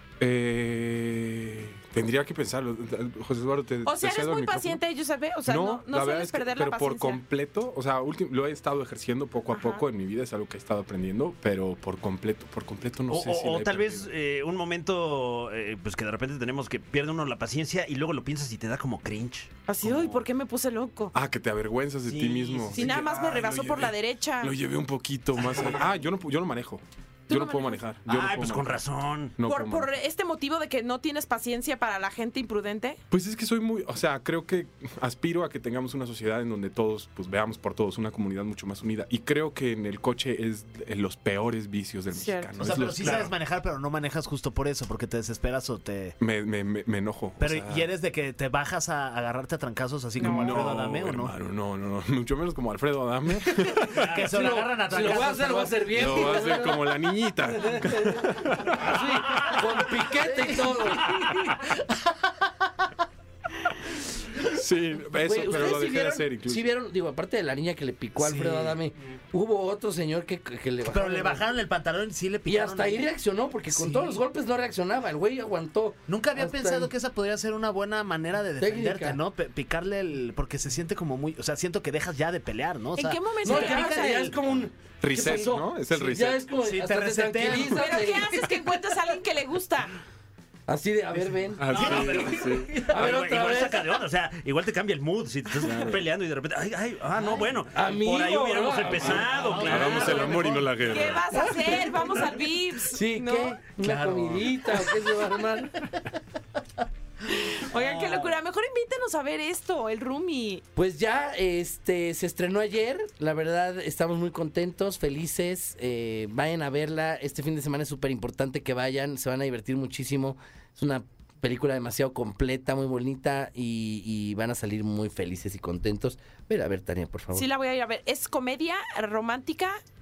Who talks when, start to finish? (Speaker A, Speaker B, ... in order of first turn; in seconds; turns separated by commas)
Speaker A: 0.2-4.8, Speaker B: 3.8-7.2, Speaker A: 5.5-14.1, Speaker B: 9.5-9.8, Speaker C: 13.1-20.1, Speaker B: 19.7-21.1, Speaker A: 21.1-28.8, Speaker C: 22.1-23.1, Speaker B: 22.7-24.5, Speaker B: 27.3-27.8, Speaker C: 28.1-29.3, Speaker A: 29.4-29.9, Speaker B: 29.4-33.0, Speaker A: 33.1-43.4, Speaker B: 42.1-42.5, Speaker D: 42.6-46.2, Speaker C: 43.0-43.3, Speaker A: 46.2-47.9, Speaker D: 47.4-51.3, Speaker B: 50.2-50.7, Speaker A: 50.2-54.2, Speaker D: 53.9-56.5, Speaker E: 54.2-61.2, Speaker A: 55.9-58.9, Speaker D: 60.2-61.9, Speaker A: 64.4-66.6, Speaker E: 65.2-71.5, Speaker D: 68.2-68.8, Speaker D: 70.8-73.0, Speaker E: 72.5-76.9, Speaker D: 73.7-74.2, Speaker D: 76.1-84.3, Speaker E: 78.6-79.2, Speaker B: 83.0-84.3, Speaker E: 83.4-88.4, Speaker A: 85.0-86.5, Speaker D: 86.6-87.9, Speaker B: 87.6-89.9, Speaker E: 90.7-92.2, Speaker A: 91.6-92.9, Speaker D: 91.7-93.1, Speaker C: 92.7-100.5, Speaker E: 92.8-93.9, Speaker A: 95.6-96.0, Speaker E: 97.7-99.3, Speaker D: 99.0-101.1, Speaker A: 99.5-101.4, Speaker B: 100.8-103.6, Speaker E: 101.4-102.1, Speaker E: 102.8-105.8, Speaker D: 103.8-105.3, Speaker B: 107.2-110.6, Speaker D: 107.7-108.3, Speaker E: 110.7-127.5, Speaker B: 127.3-129.8